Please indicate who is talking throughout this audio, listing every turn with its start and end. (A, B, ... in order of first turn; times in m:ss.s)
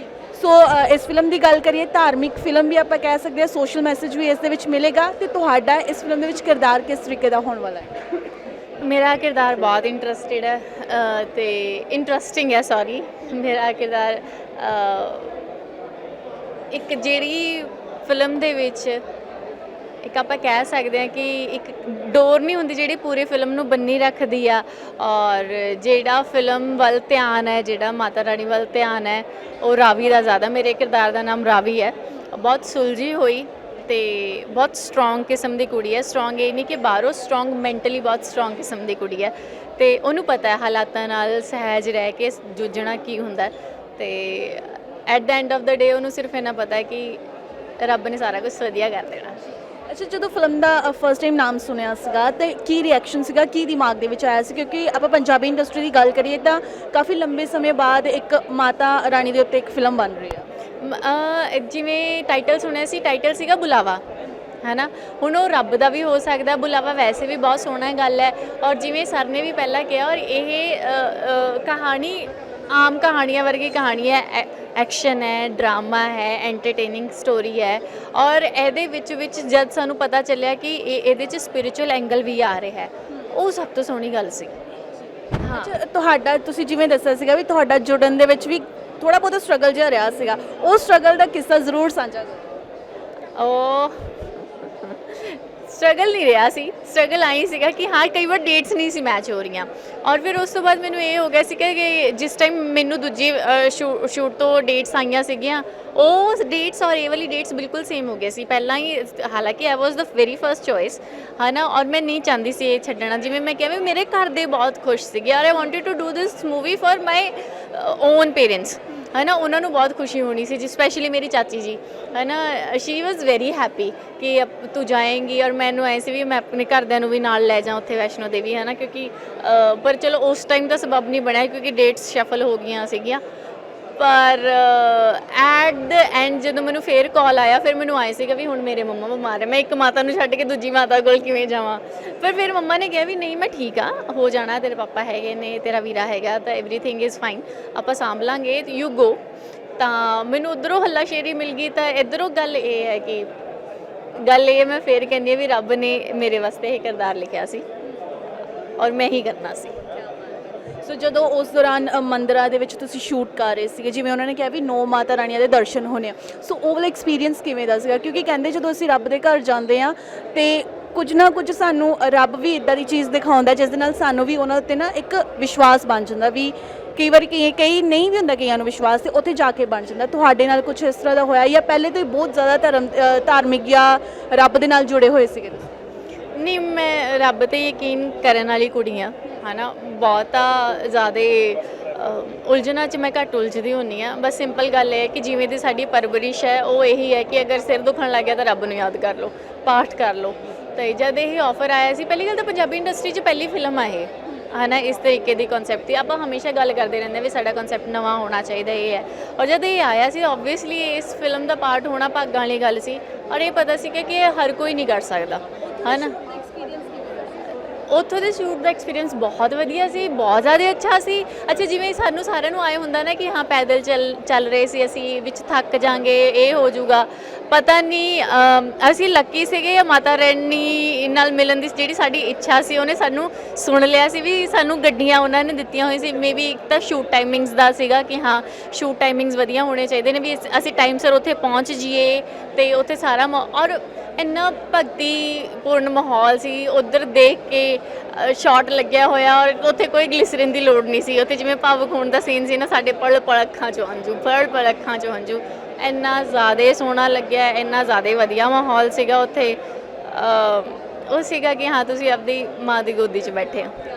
0:00.2-0:08.1 A
0:08.8-0:15.4 B
0:16.7-0:19.0 B
0:20.0-0:47.2 B
0:47.8-0:49.4 B
0:49.9-1:00.4 A
1:00.8-1:04.0 B
1:04.6-1:24.6 B
1:25.4-1:25.8 B
1:25.4-1:32.5 A
1:33.4-2:13.2 B
2:14.0-2:29.2 B
2:29.8-2:33.3 B
2:34.2-2:37.6 B
2:38.8-2:39.8 B
2:40.8-3:05.7 A
3:06.3-3:36.2 B
3:36.3-3:37.2 A
3:37.9-4:23.7 B